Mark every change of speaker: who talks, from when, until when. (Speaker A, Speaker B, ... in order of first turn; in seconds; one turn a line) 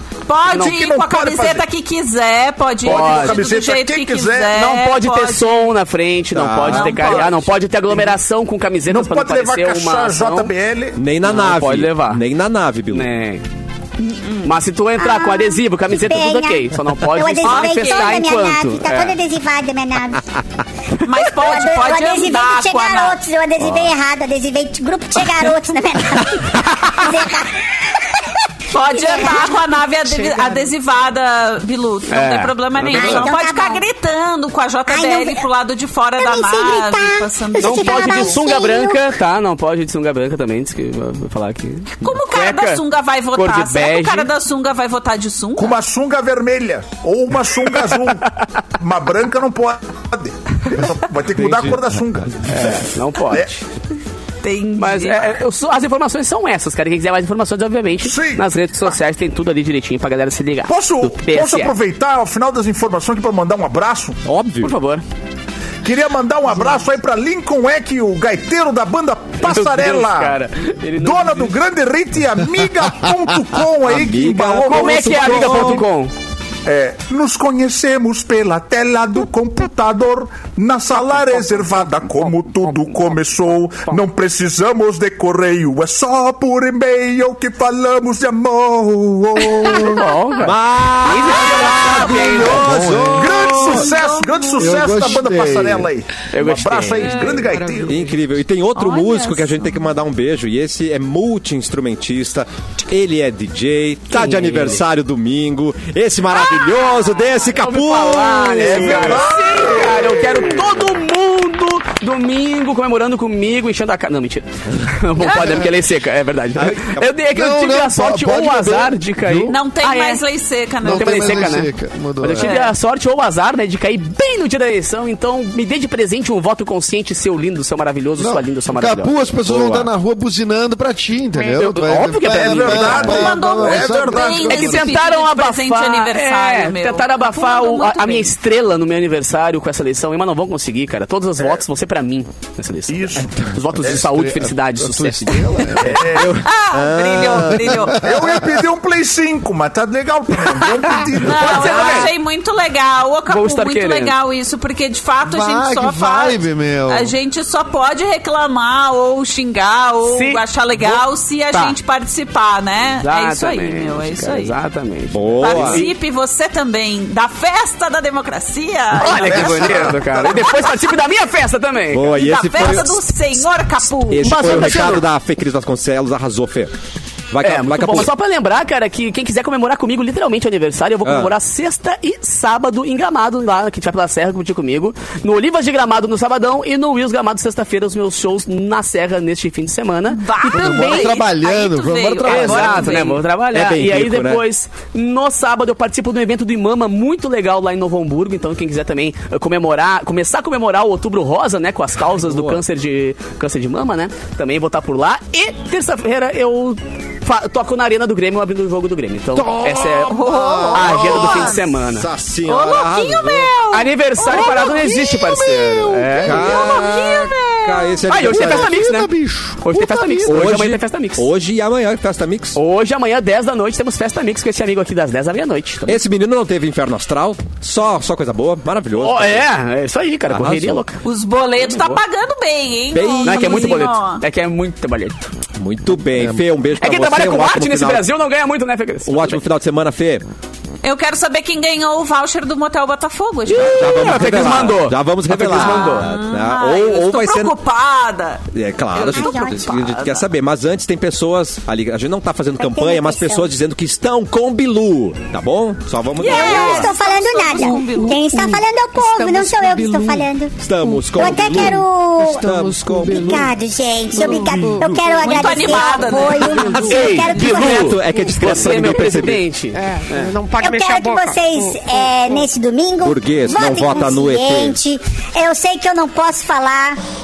Speaker A: 0.3-5.7
Speaker B: 0.6-1.6
Speaker C: 2.8-3.5
Speaker B: 2.9-4.5
Speaker C: 4.5-10.5
Speaker D: 6.3-7.4
Speaker A: 6.6-7.5
Speaker B: 8.9-11.0
Speaker D: 10.9-13.1
Speaker C: 11.2-12.2
Speaker C: 12.9-13.4
Speaker A: 14.0-14.5
Speaker C: 14.4-19.2
Speaker E: 15.0-20.3
Speaker A: 17.4-18.2
Speaker A: 21.0-23.2
Speaker E: 21.2-29.6
Speaker D: 23.6-23.9
Speaker A: 28.7-38.5
Speaker F: 30.1-30.7
Speaker C: 32.1-33.2
Speaker E: 32.9-33.8
Speaker E: 34.9-35.4
Speaker E: 36.2-39.1
Speaker C: 37.6-44.3
Speaker A: 42.0-45.8
Speaker B: 45.5-52.8
Speaker C: 47.7-48.1
Speaker D: 51.4-52.3
Speaker C: 52.4-53.6
Speaker A: 54.4-55.4
Speaker C: 54.8-61.8
Speaker B: 58.0-59.0
Speaker B: 60.7-64.2
Speaker D: 64.2-64.7
Speaker C: 64.6-65.0
Speaker B: 65.8-70.4
Speaker C: 69.4-71.6
Speaker B: 71.0-75.8
Speaker D: 73.8-75.8
Speaker C: 74.6-76.1
Speaker B: 76.6-90.1
Speaker C: 81.0-83.2
Speaker C: 89.5-93.7
Speaker D: 90.4-93.6
Speaker G: 92.4-93.6
Speaker B: 93.2-98.0
Speaker A: 93.7-94.9
Speaker G: 94.6-95.9
Speaker C: 96.3-97.6
Speaker D: 97.9-109.1
Speaker A: 98.7-99.8
Speaker C: 104.1-104.8
Speaker C: 107.5-120.2
Speaker B: 108.6-110.6
Speaker A: 115.2-115.6
Speaker D: 116.5-117.1
Speaker G: 117.3-119.6
Speaker A: 119.5-121.7
Speaker G: 120.8-122.5
Speaker C: 120.8-129.9
Speaker A: 122.4-122.7
Speaker G: 128.2-135.0
Speaker C: 131.4-133.1
Speaker B: 132.3-134.6
Speaker A: 133.0-138.3
Speaker C: 134.3-145.4
Speaker B: 142.9-144.0
Speaker G: 143.8-146.0
Speaker A: 145.8-148.0
Speaker B: 145.8-146.4
Speaker D: 146.1-147.9
Speaker G: 147.5-148.3
Speaker B: 147.9-152.0
Speaker C: 150.4-152.2
Speaker A: 151.2-164.6
Speaker C: 153.3-154.1
Speaker G: 155.2-157.1
Speaker C: 160.0-161.8
Speaker C: 163.0-165.9
Speaker D: 165.1-165.8
Speaker A: 165.4-170.9
Speaker C: 168.9-172.8
Speaker B: 169.3-170.4
Speaker D: 171.9-173.1
Speaker A: 172.1-175.0
Speaker D: 174.1-176.7
Speaker C: 174.2-175.1
Speaker D: 177.3-178.1
Speaker C: 177.4-190.3
Speaker D: 181.0-181.3
Speaker A: 190.1-193.2
Speaker G: 190.5-192.9
Speaker F: 190.7-191.1
Speaker C: 192.2-212.6
Speaker D: 193.5-194.4
Speaker D: 202.2-202.6
Speaker D: 209.5-210.1
Speaker A: 210.1-211.8
Speaker G: 210.2-211.3
Speaker D: 211.1-213.6
Speaker A: 212.5-215.1
Speaker C: 213.7-216.7
Speaker G: 214.3-216.9
Speaker A: 216.2-218.1
Speaker D: 216.2-218.7
Speaker C: 218.1-221.3
Speaker G: 218.3-220.6
Speaker D: 220.2-222.6
Speaker C: 222.5-226.0
Speaker D: 225.8-229.4
Speaker C: 228.9-231.0
Speaker D: 230.3-230.8
Speaker A: 231.0-234.2
Speaker C: 231.6-232.0
Speaker D: 232.9-233.8
Speaker C: 233.2-235.3
Speaker D: 235.6-238.1
Speaker C: 236.8-239.4
Speaker D: 239.0-240.2
Speaker A: 240.8-244.7
Speaker C: 243.4-246.1
Speaker D: 243.6-247.5
Speaker A: 245.4-250.2
Speaker D: 248.5-256.9
Speaker E: 249.0-249.7
Speaker E: 252.6-253.5
Speaker A: 256.1-258.2
Speaker E: 256.2-260.5
Speaker F: 257.5-263.4
Speaker D: 260.6-263.5
Speaker E: 261.1-262.5
Speaker E: 263.1-267.9
Speaker F: 264.1-265.3
Speaker A: 265.2-266.8
Speaker F: 265.9-267.0
Speaker D: 266.6-269.4
Speaker C: 266.8-270.3
Speaker F: 269.7-272.4
Speaker E: 270.6-277.0
Speaker D: 273.0-274.8